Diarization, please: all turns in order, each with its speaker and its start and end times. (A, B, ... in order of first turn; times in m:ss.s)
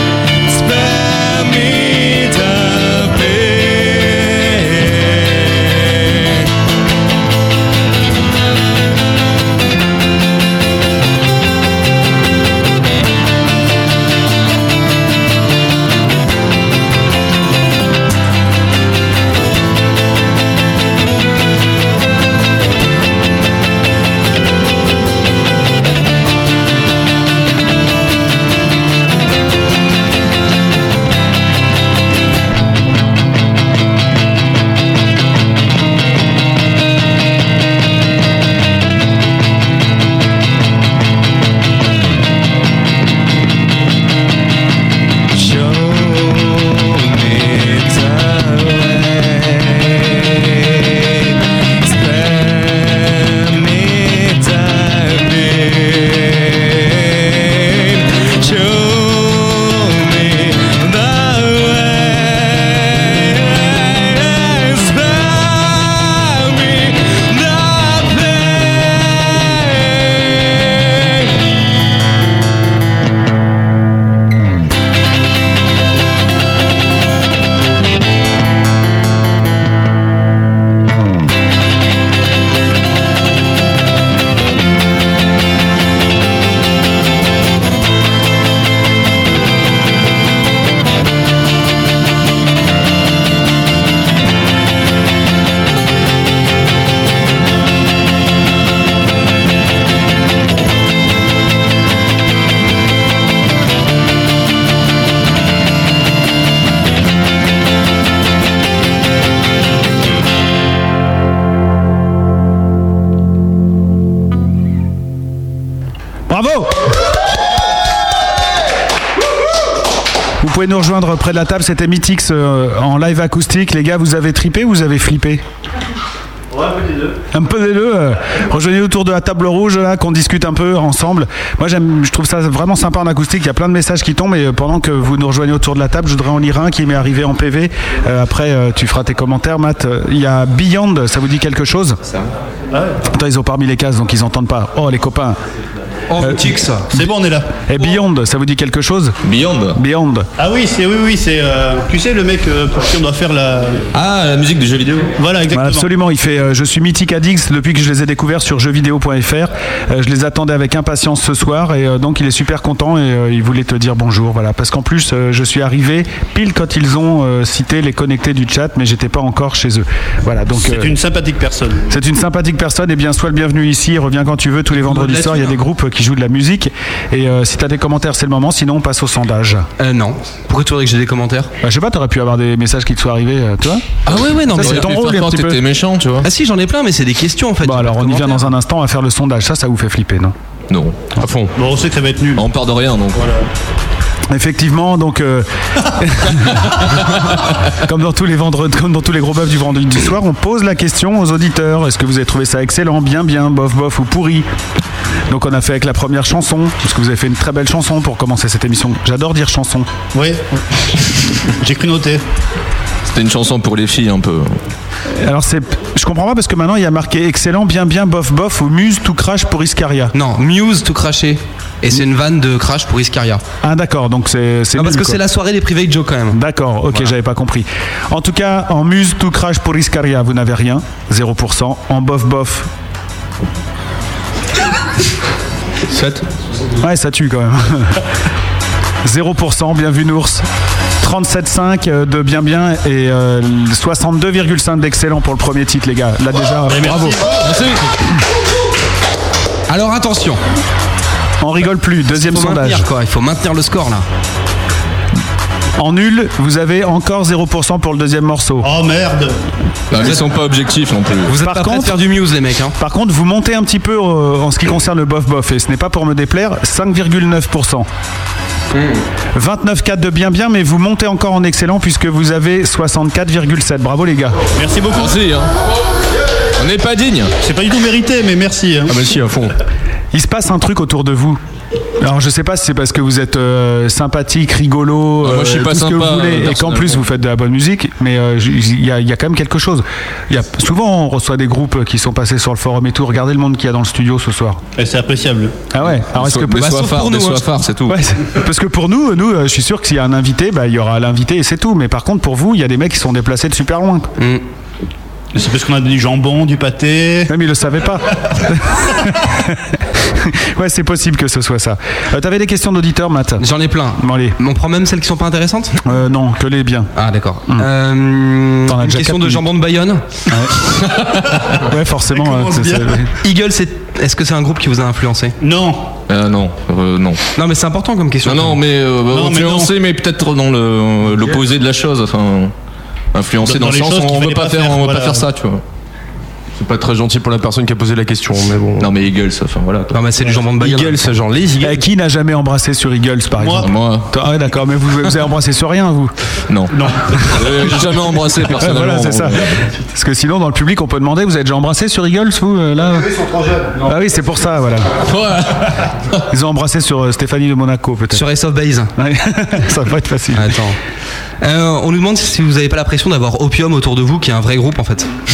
0:00.4-0:06.5 A
0:45.3-1:11.5 A
1:56.3-1:56.9 B
2:00.4-2:05.4 B
2:06.5-2:07.2 C
2:07.3-2:22.0 B
2:22.7-2:23.0 C
2:23.1-2:25.4 B
2:26.1-2:26.9 D
2:26.2-2:27.0 B
2:26.9-2:27.6 C
2:27.7-2:29.2 B
2:29.2-2:29.8 E
2:29.8-2:30.3 B
2:30.4-2:33.8 C
2:33.9-2:35.1 E
2:35.2-2:35.9 C
2:35.5-2:51.0 B
2:50.6-2:51.9 C
2:51.9-2:59.7 B
2:54.8-2:55.6 D
2:59.8-3:01.5 D
3:01.6-3:04.0 B
3:04.1-3:04.9 D
3:04.1-3:06.3 E
3:04.5-3:05.6 B
3:06.2-3:08.5 D
3:07.6-3:10.3 B
3:10.7-3:11.0 E
3:11.2-3:11.5 F
3:11.6-3:12.4 C
3:12.4-3:13.3 E
3:13.2-3:13.4 C
3:14.3-3:24.5 B
3:25.3-3:29.9 B
3:30.1-3:32.2 C
3:33.1-3:34.6 E
3:35.1-3:40.1 B
3:40.1-3:43.4 D
3:43.6-3:45.2 B
3:44.8-3:46.4 D
3:46.3-3:52.7 B
3:55.9-3:56.2 F
3:56.8-3:58.0 B
3:59.0-4:00.4 B
4:01.0-4:07.2 B
4:06.7-4:07.4 C
4:09.7-4:10.4 D
4:11.4-4:12.9 B
4:12.1-4:14.0 D
4:15.8-4:18.7 B
4:18.6-4:19.4 C
4:19.9-4:21.3 E
4:21.3-4:22.8 D
4:21.3-4:22.0 B
4:22.8-4:27.9 B
4:29.3-4:34.4 B
4:34.6-4:35.2 C
4:34.9-4:35.5 E
4:36.6-4:37.3 E
4:37.4-4:39.0 C
4:38.9-4:39.5 F
4:40.1-4:41.4 B
4:42.0-4:54.6 B
4:45.2-4:47.0 E
4:54.8-4:55.6 C
4:55.7-4:56.7 B
4:56.1-4:58.0 E
4:56.6-4:57.6 D
4:57.9-5:04.1 B
5:05.3-5:07.3 C
5:07.3-5:13.4 B
5:13.4-5:15.8 D
5:14.0-5:14.4 B
5:15.8-5:16.9 B
5:17.0-5:20.0 D
5:18.7-5:19.4 B
5:20.3-5:20.7 B
5:21.5-5:23.1 B
5:22.1-5:23.0 C
5:23.2-5:25.4 D
5:25.4-5:25.9 C
5:26.1-5:27.2 E
5:27.4-5:28.6 D
5:28.2-5:32.5 E
5:29.1-5:29.7 C
5:33.1-5:35.6 E
5:33.4-5:35.2 C
5:36.6-5:38.9 F
5:38.8-5:40.0 E
5:39.9-5:41.0 D
5:40.5-5:41.8 F
5:41.6-5:46.1 B
5:43.4-5:43.7 C
5:43.6-5:44.1 E
5:46.5-5:49.6 E
5:46.7-5:47.1 C
5:48.6-5:53.2 B
5:53.4-5:53.8 C
5:53.8-5:54.9 B
5:55.0-5:56.2 E
5:56.3-5:58.2 B
5:58.1-5:58.9 D
5:59.0-6:00.6 B
6:00.4-6:00.8 D
6:01.4-6:05.1 D